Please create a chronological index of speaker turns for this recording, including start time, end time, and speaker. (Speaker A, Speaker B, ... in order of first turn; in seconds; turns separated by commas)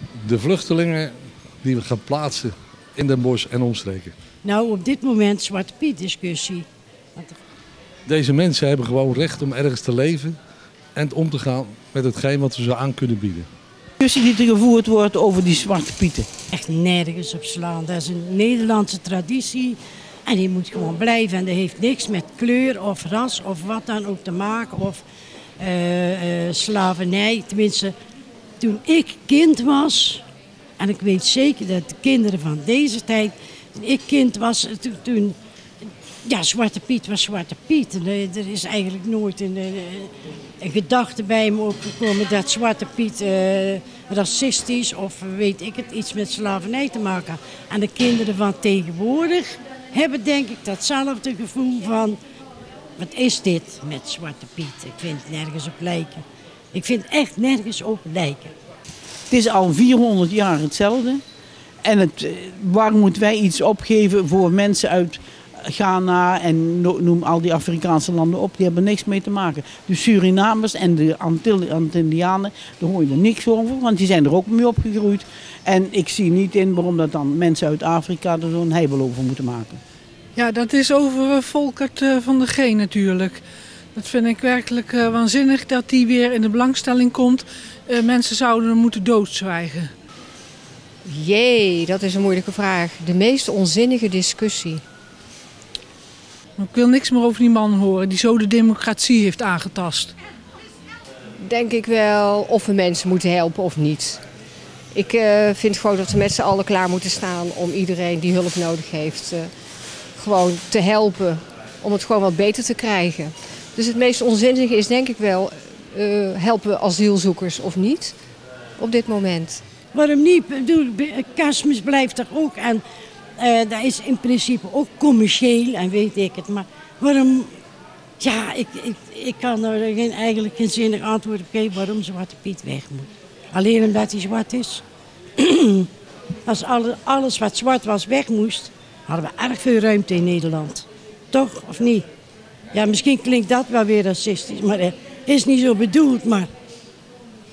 Speaker A: 0.2-1.1, Speaker A: 1.6-4.1, Speaker B: 4.4-7.4, Speaker A: 8.1-10.4, Speaker A: 11.0-13.5, Speaker C: 14.0-16.3, Speaker B: 16.5-25.0, Speaker B: 25.6-27.9, Speaker B: 28.6-30.2, Speaker B: 30.8-35.4, Speaker B: 36.2-52.2, Speaker B: 53.0-58.5, Speaker C: 59.3-61.2, Speaker C: 61.8-79.8, Speaker D: 80.4-83.4, Speaker D: 84.0-89.9, Speaker E: 91.0-94.8, Speaker D: 96.6-100.1, Speaker E: 101.4-104.2, Speaker E: 104.9-109.5, Speaker E: 110.2-118.2, Speaker E: 118.8-119.6, Speaker B: 119.9-122.8, Speaker B: 123.4-127.5, Speaker B: 128.2-134.8, Speaker B: 135.4-135.9, Speaker B: 136.5-142.1, Speaker B: 142.7-146.5